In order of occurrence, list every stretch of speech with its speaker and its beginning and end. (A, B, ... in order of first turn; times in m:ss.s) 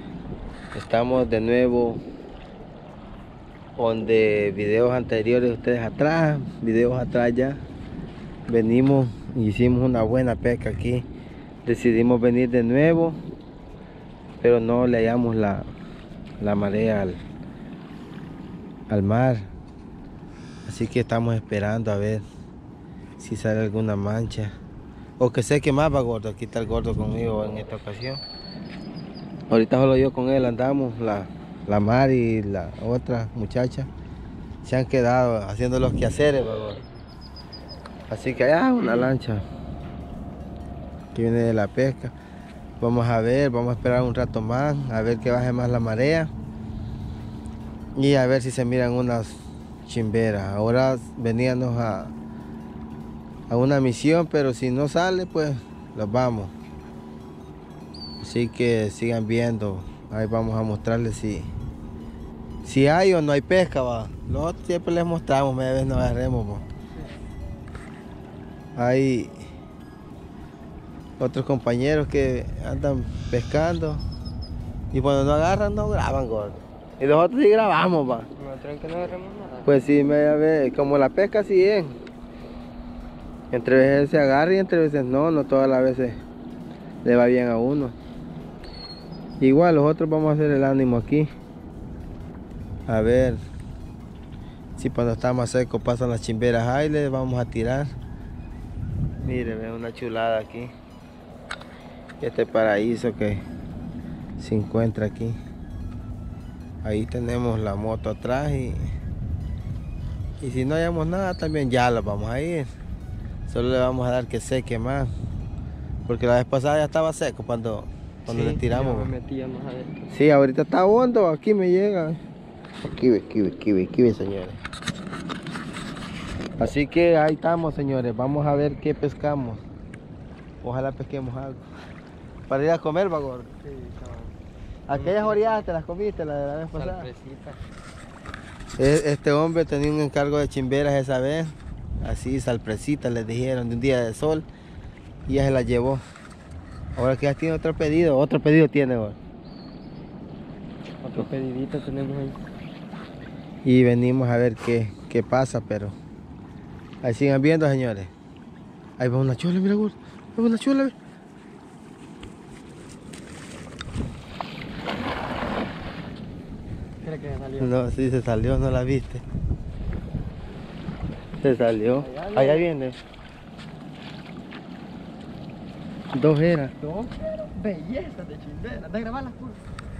0:00.7-0:02.0 A
0:03.8-0:07.6 A
0:08.5-0:11.0 A
0:11.6-0:13.2 A
0:14.4-0:15.7 A
0:16.4-0:17.2 A
0:18.9-0:19.4 A
0:20.6-0:22.2 A
0:23.2-0:24.5 A
0:25.2-0:28.2 A
0:29.5-0:33.9 A
0:34.6-0:36.8 A
0:38.1-0:39.4 A
0:41.1-0:42.1 A
0:42.8-0:46.3 A
0:48.0-0:52.1 A
0:53.5-0:56.5 A
0:58.2-1:01.5 A
1:02.6-1:06.6 A
1:08.8-1:09.4 A
1:11.2-1:14.0 A
1:14.9-1:18.3 A
1:18.4-1:19.7 B
1:19.6-1:21.9 A
1:23.5-1:26.2 A
1:27.0-1:27.9 A
1:29.4-1:31.3 A
1:32.9-1:33.4 A
1:34.8-1:37.9 A
1:39.2-1:40.7 A
1:42.2-1:43.4 A
1:44.4-1:45.4 A
1:46.8-1:48.9 A
1:50.4-1:52.7 A
1:53.5-1:55.1 A
1:56.0-1:59.1 A
1:58.2-2:00.2 B
2:00.1-2:02.2 A
2:02.8-2:04.6 A
2:06.6-2:09.6 A
2:10.6-2:11.6 A
2:12.5-2:13.5 A
2:13.6-2:14.3 B
2:14.9-2:17.1 A
2:14.9-2:15.7 B
2:16.7-2:17.6 B
2:18.8-2:24.4 A
2:25.3-2:26.0 A
2:27.0-2:29.2 A
2:31.0-2:32.4 B
2:33.6-2:35.9 A
2:37.0-2:38.1 A
2:39.0-2:40.9 A
2:47.0-2:47.7 B
2:47.6-2:49.2 A
2:51.4-2:53.0 A
2:52.0-2:52.7 B
2:56.1-2:56.7 A
2:56.8-2:59.6 B